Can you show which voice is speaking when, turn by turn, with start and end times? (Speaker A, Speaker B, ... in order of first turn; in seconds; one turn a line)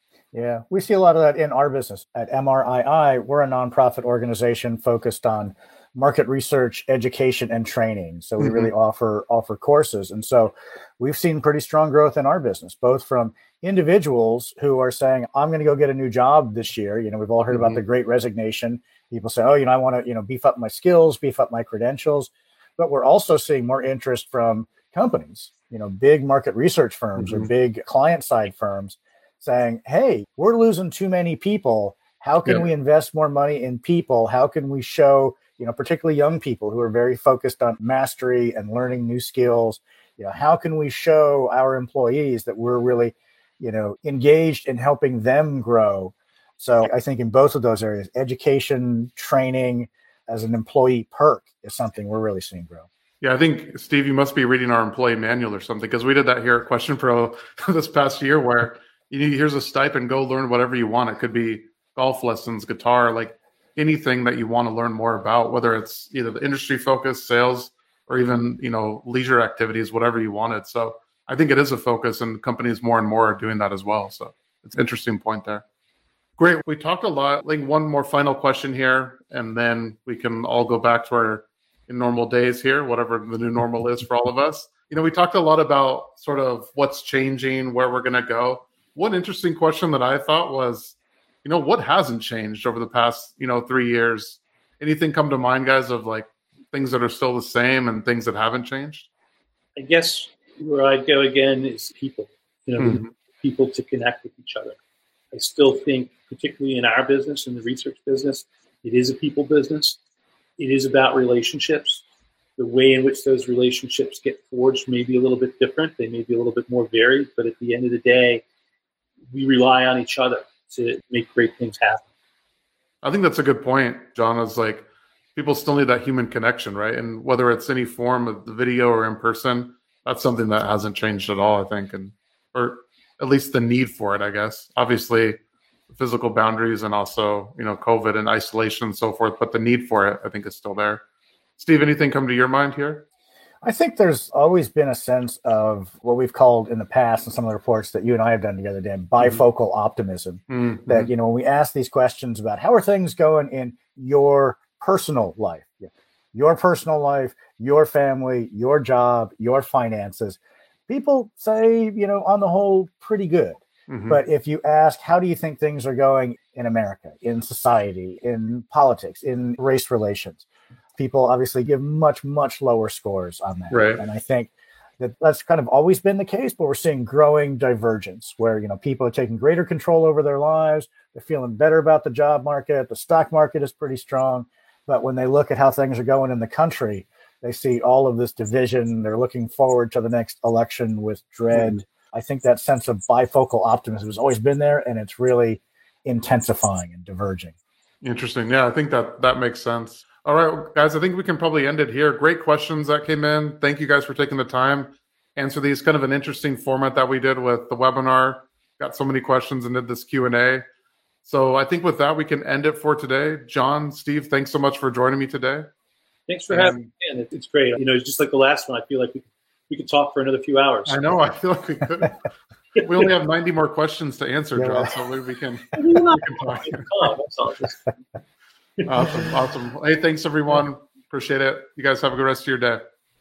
Speaker A: 0.3-52.9
Speaker B: 8.4-8.7
Speaker B: 17.5-17.8
Speaker B: 27.2-27.5
Speaker B: 53.2-75.6
Speaker B: 76.4-99.1
Speaker C: 99.8-104.8
Speaker B: 102.8-103.1
Speaker C: 105.3-110.0
Speaker C: 110.6-112.0
Speaker C: 112.6-118.4
Speaker C: 119.3-122.0
Speaker B: 123.0-135.4
Speaker B: 135.9-141.0
Speaker B: 141.6-143.1
Speaker A: 143.6-170.4
Speaker B: 150.5-151.1
Speaker B: 163.9-164.2
Speaker A: 171.0-197.6
Speaker B: 173.7-174.0
Speaker B: 191.5-191.8
Speaker B: 198.0-210.6
Speaker B: 211.2-215.7
Speaker C: 216.3-221.2
Speaker B: 216.5-216.9
Speaker B: 220.9-222.2
Speaker B: 222.8-226.9
Speaker A: 224.6-224.9
Speaker C: 225.8-227.9
Speaker B: 228.8-232.8